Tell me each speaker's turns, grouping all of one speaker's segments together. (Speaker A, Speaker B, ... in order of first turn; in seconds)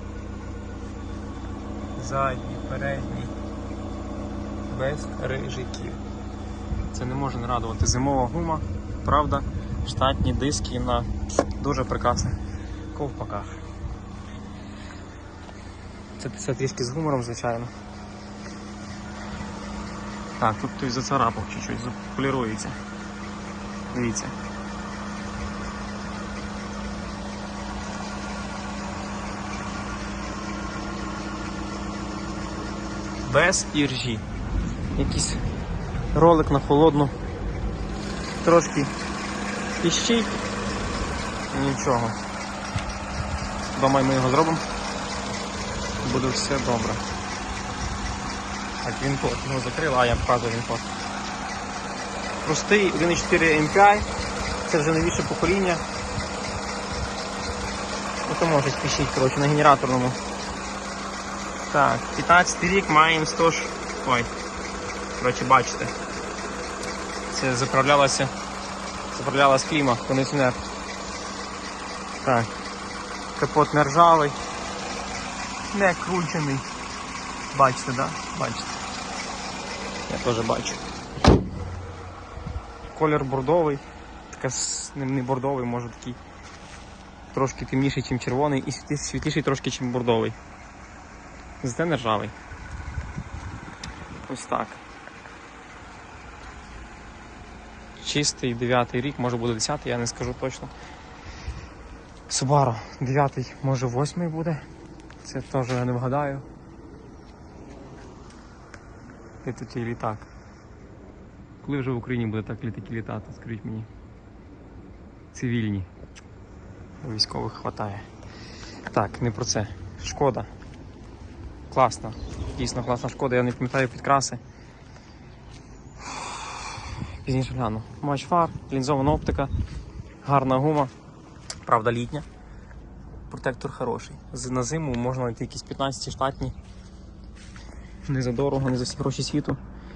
Speaker A: 2.0-3.3, 4.7-6.0, 6.9-12.4, 12.9-13.6, 16.2-17.7, 20.4-22.8, 23.9-24.4, 33.2-34.2, 35.0-35.4, 36.1-37.1, 38.4-38.9, 39.8-40.4, 41.5-42.2, 43.8-44.6, 46.0-47.0, 48.8-50.9, 52.4-54.1, 54.7-55.8, 58.3-60.2, 61.7-64.3, 65.2-65.9, 67.3-68.3, 69.1-70.6, 72.2-72.5, 73.4-74.4, 75.7-76.7, 77.5-78.8, 80.1-80.8, 82.9-86.2, 87.3-90.4, 91.6-92.3, 94.3-94.8, 98.0-100.7, 102.3-104.7, 105.2-106.5, 109.4-110.3, 111.6-113.9, 115.3-115.9, 117.0-118.1, 118.9-120.5, 121.7-124.4, 126.0-129.5, 130.2-130.9, 131.7-132.3, 133.3-136.6, 138.1-139.6